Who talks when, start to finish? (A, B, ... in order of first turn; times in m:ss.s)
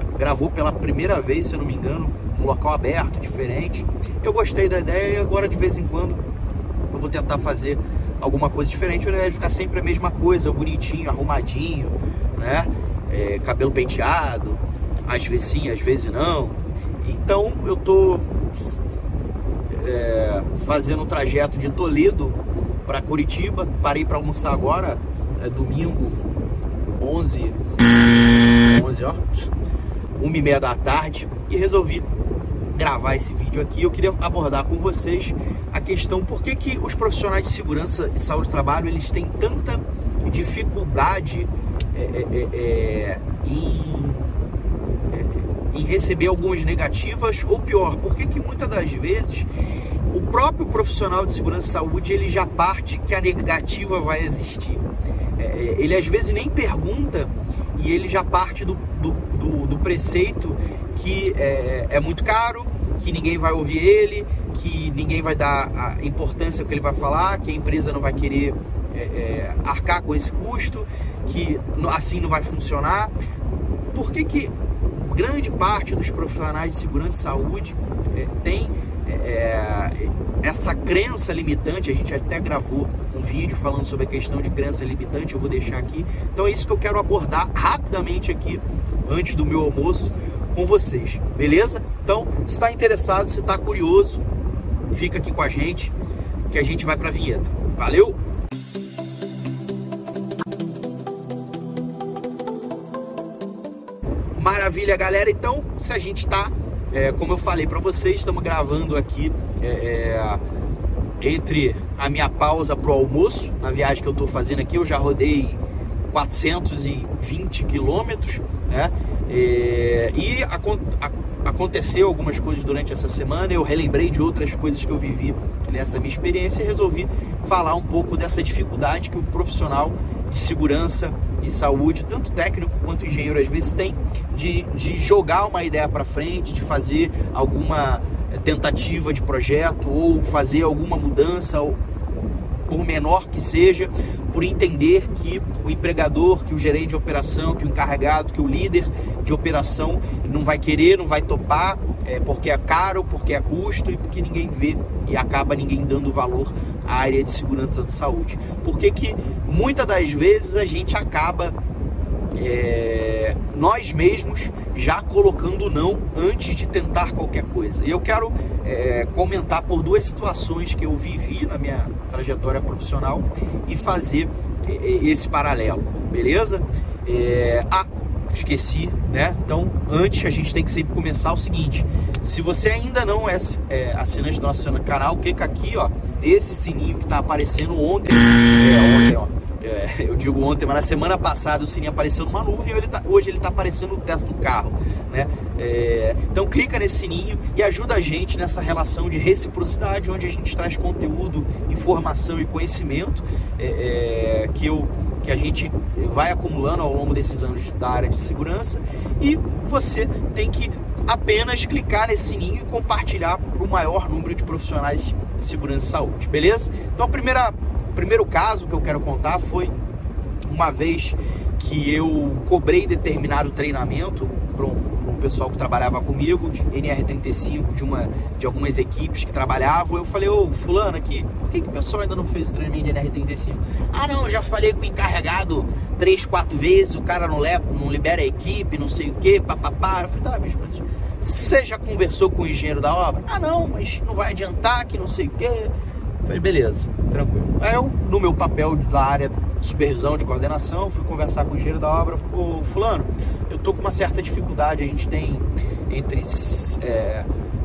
0:00.2-0:06.2 A
0:06.9-0:18.4 A
0:19.7-0:26.3 A
0:27.0-0:29.5 A
0:30.2-0:32.1 A
0:32.7-0:44.4 A
0:45.1-0:49.5 A
0:50.1-1:13.1 A
1:13.9-1:34.2 A
1:34.9-1:35.9 A
1:36.5-1:38.2 A
1:44.4-1:50.4 A
1:51.2-2:21.8 A
2:22.7-2:41.6 A
2:42.4-3:39.8 A
3:40.4-4:17.3 A